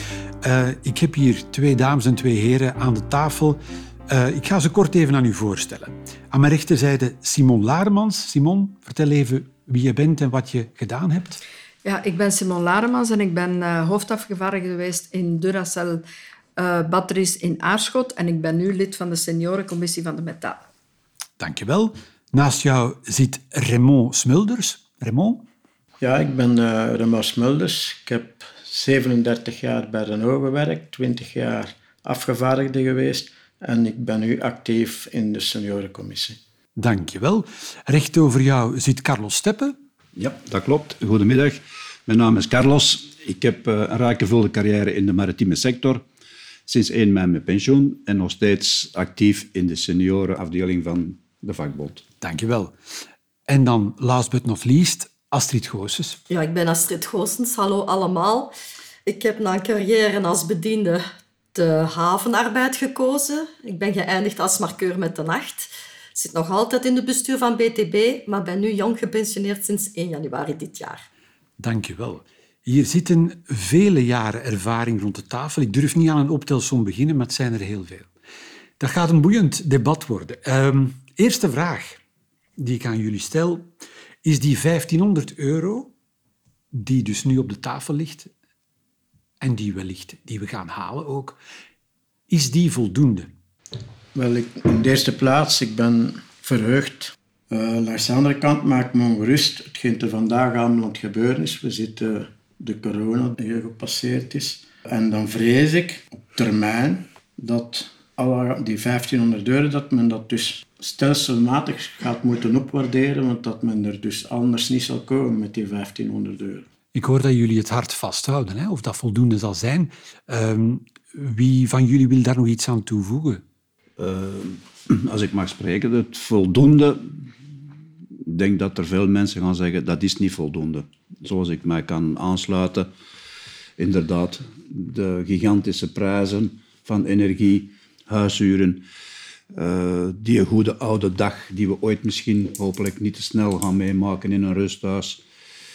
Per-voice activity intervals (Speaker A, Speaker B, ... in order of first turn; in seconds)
Speaker A: 0.4-3.6, 4.1-11.4, 21.4-25.4, 36.8-39.7, 52.2-52.7, 53.5-56.2, 71.6-78.1, 78.8-82.0, 82.6-83.7, 84.2-85.9, 86.7-88.3, 89.4-91.4, 92.3-93.3, 116.9-123.4
Speaker B: 11.8-16.0, 16.6-20.6
Speaker C: 26.0-36.4, 94.1-116.6
Speaker D: 40.1-46.0, 46.7-52.0, 124.0-127.3, 128.2-132.9, 133.8-138.8, 139.5-145.2
Speaker E: 56.3-58.5, 59.0-61.0, 61.5-71.1